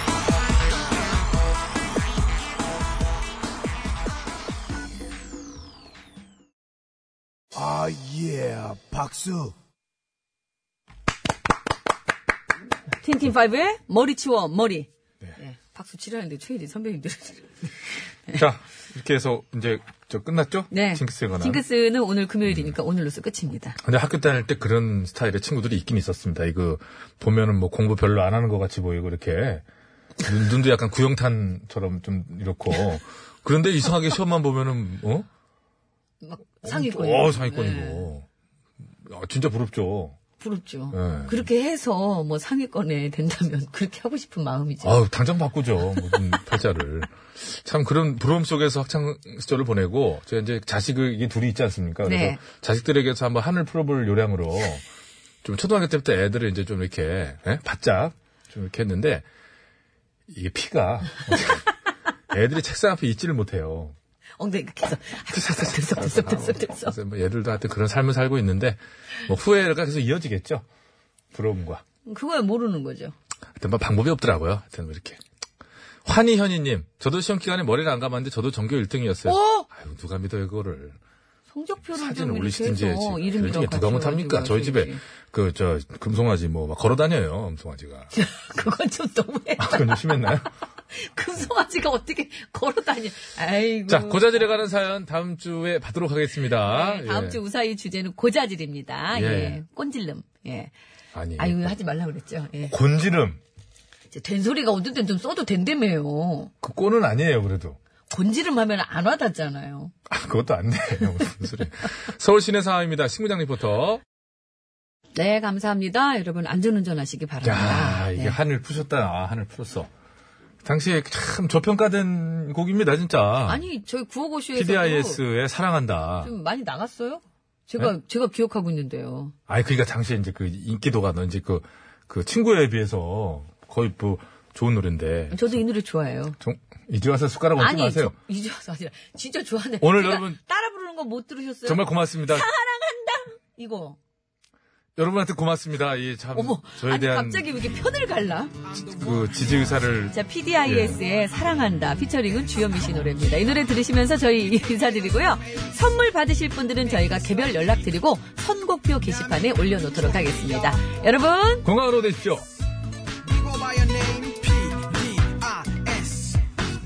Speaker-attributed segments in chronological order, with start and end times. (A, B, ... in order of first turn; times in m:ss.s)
0:07.6-0:09.5 A
0:13.0-0:17.5 B
0:18.4-0:21.6 A
0:20.7-0:23.8 B
0:22.5-0:22.7 A
0:23.8-0:29.6 A
0:30.2-0:35.3 A
0:36.2-0:38.1 B
0:36.6-0:38.3 A
0:39.1-0:40.2 A
0:40.4-0:45.0 B
0:40.9-0:41.4 A
0:44.8-0:54.8 A
0:52.0-0:52.4 B
0:55.4-0:59.2 A
1:00.3-1:01.7 A
1:02.3-1:04.0 A
1:04.4-1:07.0 B
1:05.3-1:10.6 A
1:11.3-1:11.8 A
1:12.1-1:13.1 B
1:13.6-1:15.2 A
1:16.0-1:21.0 A
1:19.2-1:19.7 B
1:21.5-1:25.0 B
1:21.9-1:28.1 A
1:28.1-1:30.2 B
1:29.6-1:30.5 A
1:30.9-1:34.5 B
1:33.9-1:37.4 A
1:36.5-1:40.7 B
1:39.1-1:39.6 A
1:41.1-1:41.8 A
1:41.4-1:42.8 B
1:42.7-1:43.4 A
1:44.1-1:46.5 B
1:46.6-1:47.8 A
1:48.1-1:49.9 B
1:50.1-1:54.0 A
1:55.2-1:58.4 B
1:57.4-1:59.9 A
2:00.6-2:03.6 A
2:03.5-2:05.2 B
2:04.6-2:06.3 A
2:06.2-2:09.3 B
2:09.5-2:15.6 A
2:15.3-2:16.4 B
2:16.4-2:18.2 A
2:17.6-2:24.0 B
2:19.8-2:20.4 A
2:21.6-2:22.5 A
2:25.0-2:27.8 A
2:26.3-2:28.6 B
2:28.8-2:29.2 C
2:28.8-2:31.0 A
2:30.1-2:41.7 B
2:41.6-2:42.4 A
2:43.2-2:46.4 C